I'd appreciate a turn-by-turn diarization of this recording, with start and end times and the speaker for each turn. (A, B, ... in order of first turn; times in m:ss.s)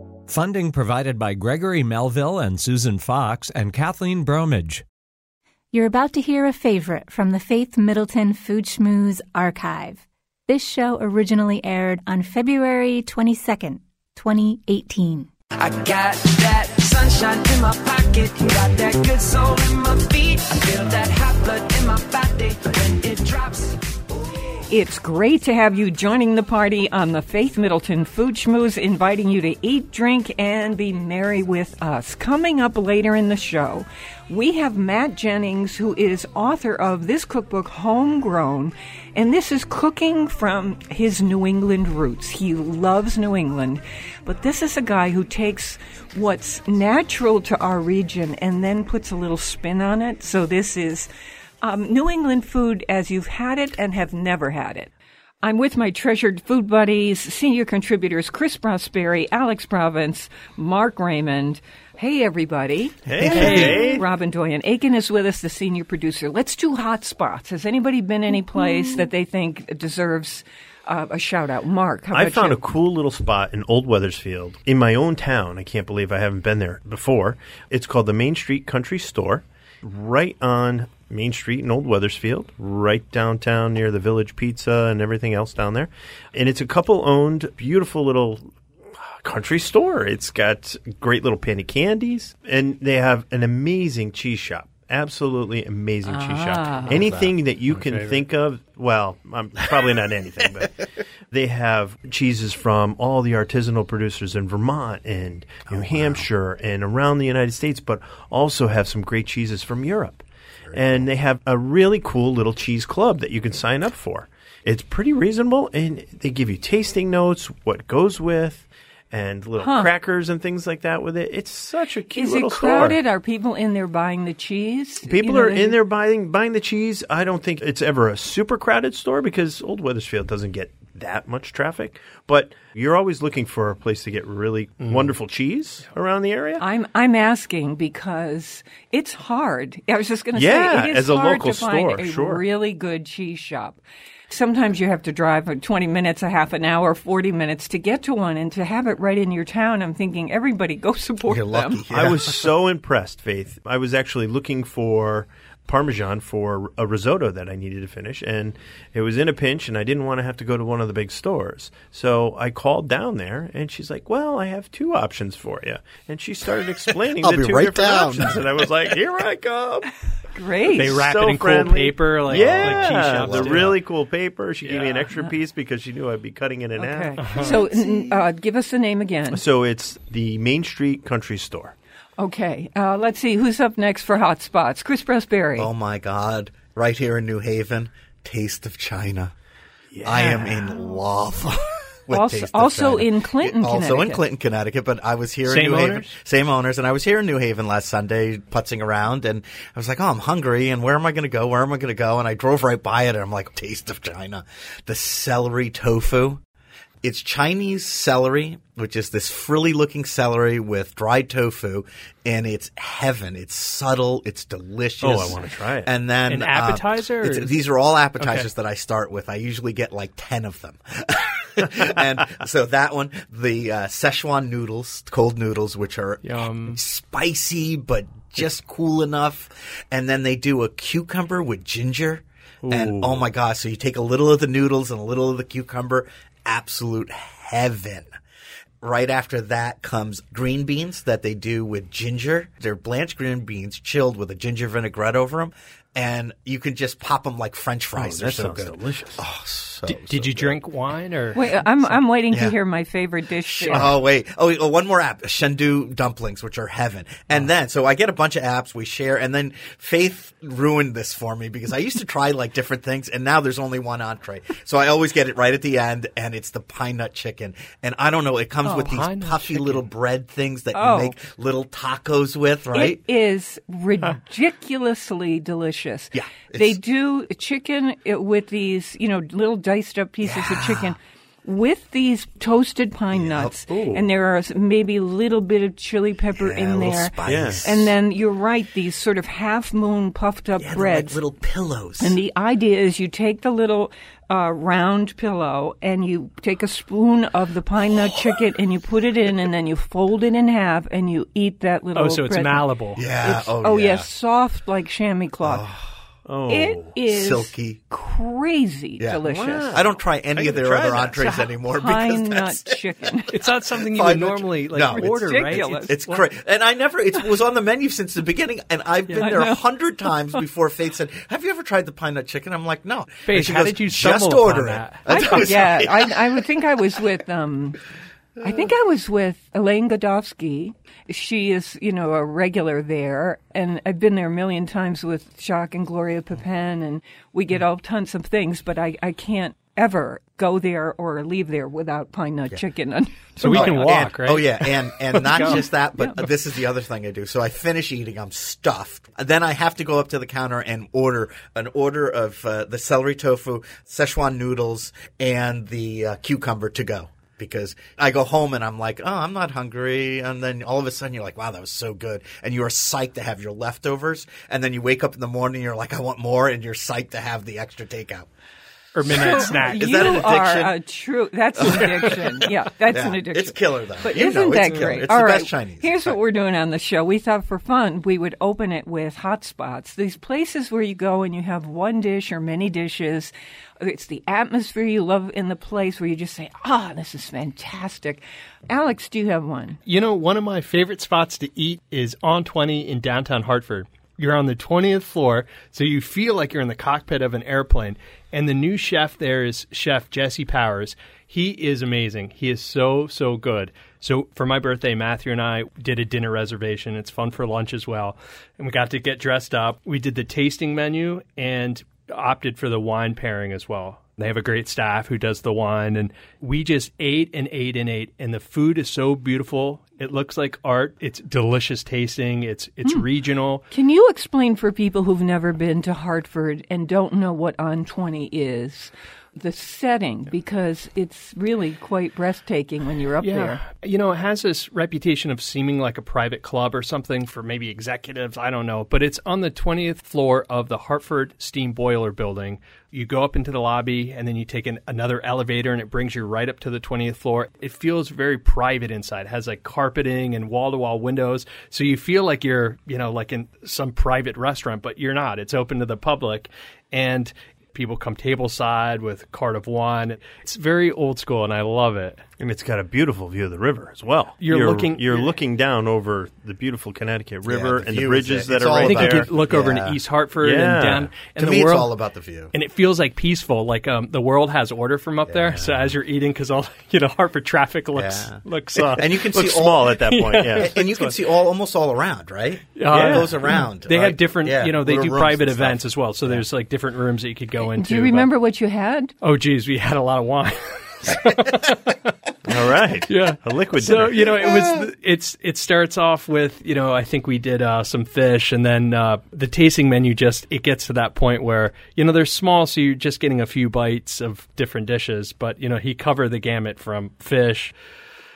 0:00.3-0:04.8 A
0:05.7-0:15.3 B
0:15.6-0:23.8 C
0:24.7-0:51.1 D
0:51.6-0:54.9 D
0:55.4-1:12.6 D
1:03.0-1:04.0 E
1:03.2-1:03.8 F
1:08.6-1:09.0 B
1:12.1-1:28.5 E
1:29.0-2:03.0 E
1:36.0-1:37.0 D
1:36.9-1:37.3 G
1:37.7-1:38.2 F
1:45.7-1:46.3 G
1:50.7-1:51.1 G
1:59.6-1:59.9 D
2:02.1-2:05.8 D
2:05.0-2:16.6 E
2:14.8-2:15.1 F
2:16.6-2:31.8 D
2:20.3-2:22.4 E
2:31.3-2:32.4 G
2:31.9-2:49.9 E
2:47.1-2:49.0 G
2:50.3-2:51.0 D
2:50.7-2:57.6 E
2:50.8-2:53.7 F
2:52.3-2:53.7 G
2:54.7-2:55.0 F
2:56.8-2:59.4 D
2:57.2-2:57.6 F
2:59.3-3:01.7 E
3:02.2-3:05.7 D
3:05.6-3:09.3 G
3:09.9-3:10.7 E
3:10.0-3:26.4 G
3:12.1-3:14.2 D
3:15.5-3:16.1 F
3:27.0-3:58.1 G
3:35.0-3:35.9 E
3:36.3-3:37.5 F
3:38.2-3:38.5 F
3:46.2-3:46.8 F
3:52.6-3:53.2 E
3:58.8-4:10.6 G
4:07.9-4:09.2 E
4:09.9-4:11.9 F
4:11.3-4:13.9 D
4:12.3-4:12.5 G
4:13.4-4:33.0 G
4:28.6-4:29.8 F
4:30.7-4:31.2 D
4:32.7-4:51.2 D
4:36.1-4:36.8 G
4:40.2-4:41.0 G
4:43.1-4:43.5 G
4:43.7-4:44.0 E
4:46.3-4:47.9 G
4:47.2-4:47.8 E
4:50.6-4:52.2 G
4:52.0-5:02.6 D
5:01.9-5:03.0 F
5:02.9-5:04.1 G
5:03.2-5:05.6 D
5:05.4-5:05.9 G
5:06.2-5:06.9 E
5:06.5-5:09.7 D
5:07.1-5:07.8 G
5:09.0-5:12.8 G
5:09.2-5:11.3 E
5:11.2-5:13.3 D
5:13.3-5:16.2 F
5:13.7-5:26.4 G
5:15.0-5:16.0 D
5:19.2-5:19.6 D
5:23.2-5:25.5 F
5:25.1-5:27.8 D
5:28.4-5:44.0 D
5:43.4-5:45.6 F
5:43.4-6:08.3 G
5:45.2-5:46.3 D
6:08.9-6:10.3 F
6:09.1-6:10.8 G
6:09.1-6:29.8 D
6:11.6-6:12.2 G
6:12.9-6:16.2 G
6:29.9-7:03.6 F
7:03.7-7:13.6 D
7:13.2-7:42.2 F
7:42.4-7:49.3 E
7:44.4-7:45.3 F
7:47.4-7:50.0 G
7:48.7-7:51.9 F
7:50.4-7:51.2 E
7:51.4-7:52.5 G
7:52.5-7:59.2 F
7:55.3-7:55.9 G
7:57.9-7:58.4 G
7:58.8-8:00.7 E
7:58.9-8:06.4 G
8:00.0-8:01.2 F
8:02.8-8:08.3 F
8:02.9-8:03.3 E
8:07.8-8:09.1 D
8:09.2-8:12.1 F
8:12.5-8:14.6 E
8:13.1-8:27.7 F
8:14.4-8:14.9 G